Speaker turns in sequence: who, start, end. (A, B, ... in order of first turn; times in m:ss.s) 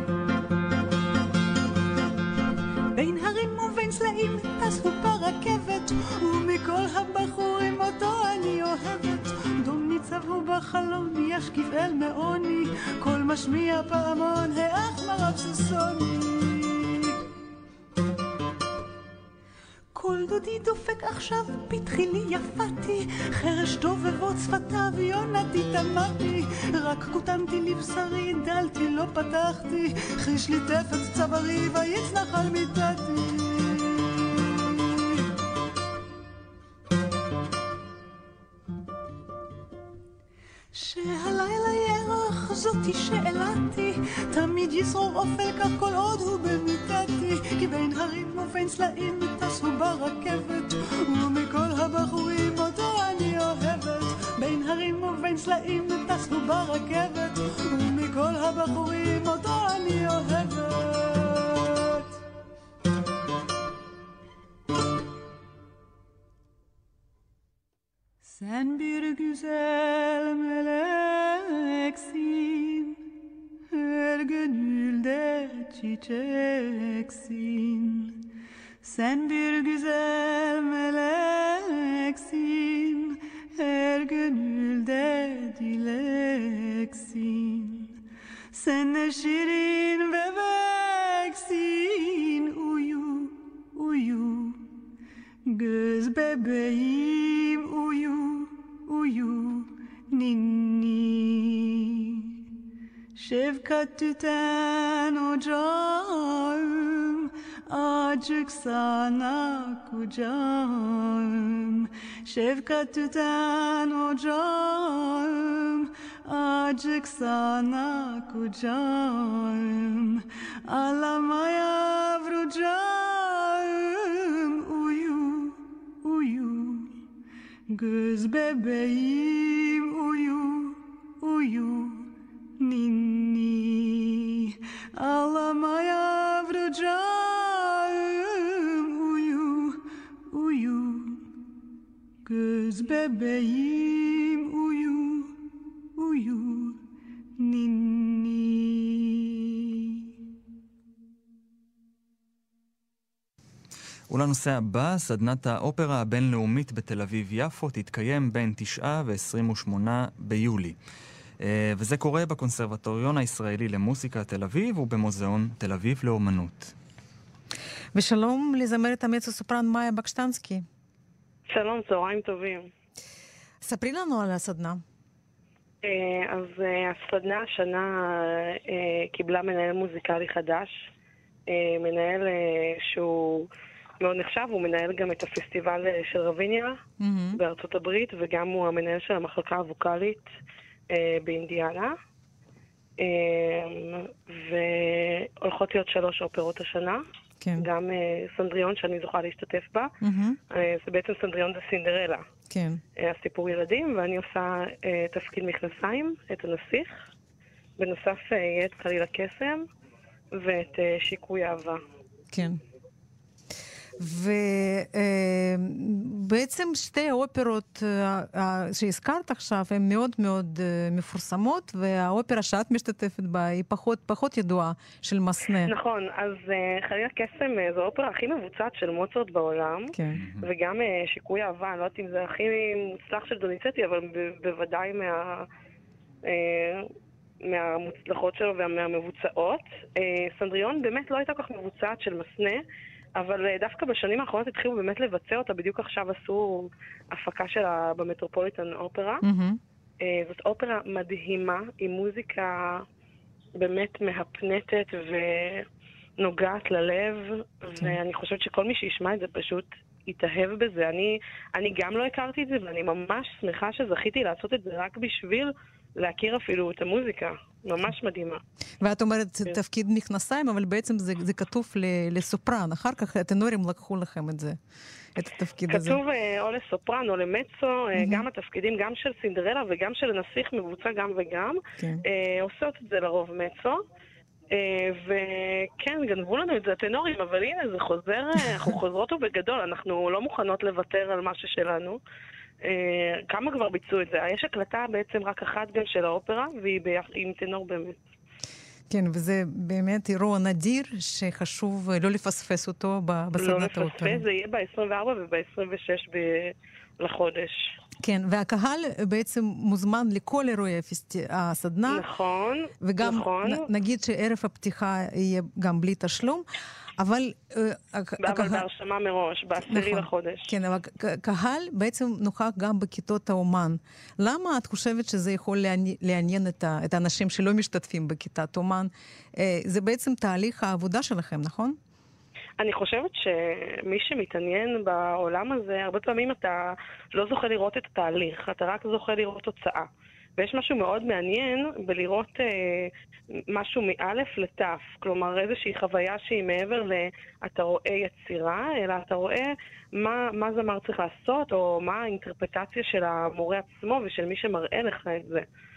0:02.9-0:17.2 A
0:19.9-0:34.0 A
0:40.7-1:02.1 A
1:08.2-1:13.0 A
1:13.7-1:18.2 A
1:18.8-1:28.0 A
1:28.5-1:34.7 A
1:35.4-1:42.3 A
1:43.2-2:07.0 A
2:07.7-2:21.3 A
2:22.2-2:25.4 A
2:26.0-2:26.8 A
2:27.4-2:29.4 A
2:34.1-2:40.8 B
2:41.4-2:46.7 B
2:47.9-2:50.6 C
2:51.5-2:52.7 D
2:53.6-2:54.8 C
2:55.8-3:00.9 D
3:01.5-3:03.5 D
3:04.0-3:06.8 D
3:07.0-3:07.4 C
3:07.4-3:10.2 D
3:10.9-3:11.9 D
3:13.0-3:17.0 D
3:17.4-3:17.6 C
3:17.6-3:19.9 D
3:20.0-3:20.4 C
3:20.5-3:22.2 D
3:22.5-3:22.8 C
3:23.0-3:27.0 D
3:27.8-3:29.6 D
3:30.3-3:31.8 D
3:32.3-3:32.6 C
3:34.0-3:45.7 C
3:45.6-3:55.5 D
3:49.9-3:50.2 C
3:50.1-3:50.4 B
3:56.2-3:56.9 D
3:57.4-4:02.6 D
4:03.2-4:09.2 D
4:09.2-4:09.6 C
4:10.0-4:12.8 D
4:13.6-4:15.6 D
4:16.2-4:28.4 D
4:28.8-4:34.6 C
4:35.2-4:36.0 C
4:35.7-4:43.8 D
4:38.0-4:38.2 C
4:44.5-4:52.0 D
4:52.6-4:58.0 D
4:58.9-5:04.2 C
5:03.4-5:07.7 D
5:08.0-5:12.0 C
5:11.9-5:13.7 D
5:12.8-5:16.4 C
5:17.0-5:18.6 C
5:18.2-5:20.5 D
5:19.6-5:31.8 C
5:32.6-5:39.9 D
5:40.4-5:42.9 D
5:43.5-5:55.4 D